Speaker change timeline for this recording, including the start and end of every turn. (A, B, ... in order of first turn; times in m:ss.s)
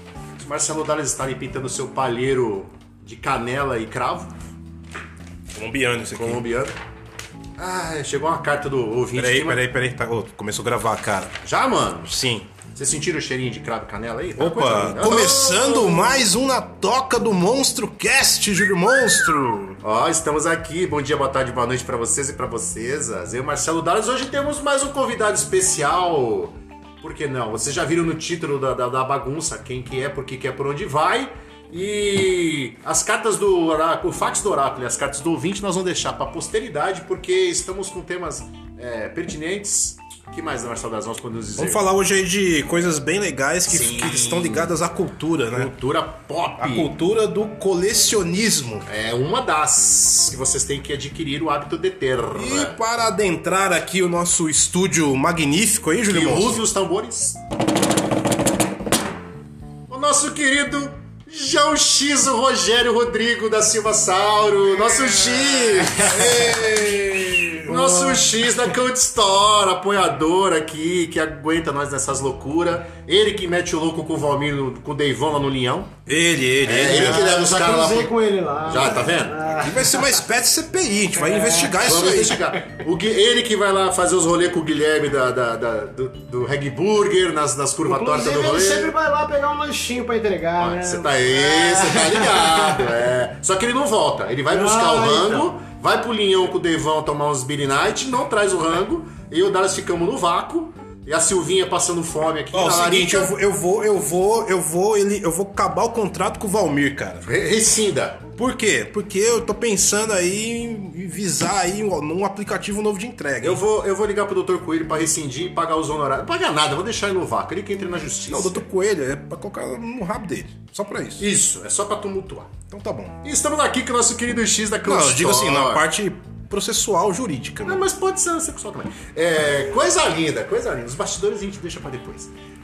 0:00.4-0:04.3 A
0:05.5-0:06.5 B
0:06.2-0:06.8 A
0:07.6-0:09.6 A
0:09.2-0:11.3 B
0:11.4-0:12.1 A
0:12.0-0:12.5 B
0:12.8-0:16.2 A
0:14.4-0:19.8 B
0:19.8-0:41.8 A
0:41.6-0:45.7 B
0:43.7-0:44.7 A
0:45.5-0:46.9 A
0:46.6-0:48.9 B
0:48.9-0:52.8 A
0:52.3-0:56.6 B
0:56.1-0:57.4 A
0:59.9-1:06.6 A
1:05.9-1:08.0 B
1:07.7-1:15.9 A
1:07.7-1:08.2 C
1:16.1-1:17.3 B
1:16.6-1:18.1 A
1:16.8-1:20.2 C
1:18.6-1:19.4 A
1:19.6-1:22.4 B
1:21.2-1:22.6 C
1:21.8-1:28.9 A
1:27.8-1:32.9 C
1:30.6-1:43.3 A
1:34.5-1:35.5 C
1:42.5-1:47.3 B
1:47.3-1:48.2 A
1:48.4-1:53.6 B
1:53.4-1:58.6 A
1:58.3-2:01.2 B
2:01.2-2:02.6 A
2:02.7-2:03.2 B
2:03.2-2:05.8 A
2:04.8-2:07.8 B
2:07.6-2:12.3 A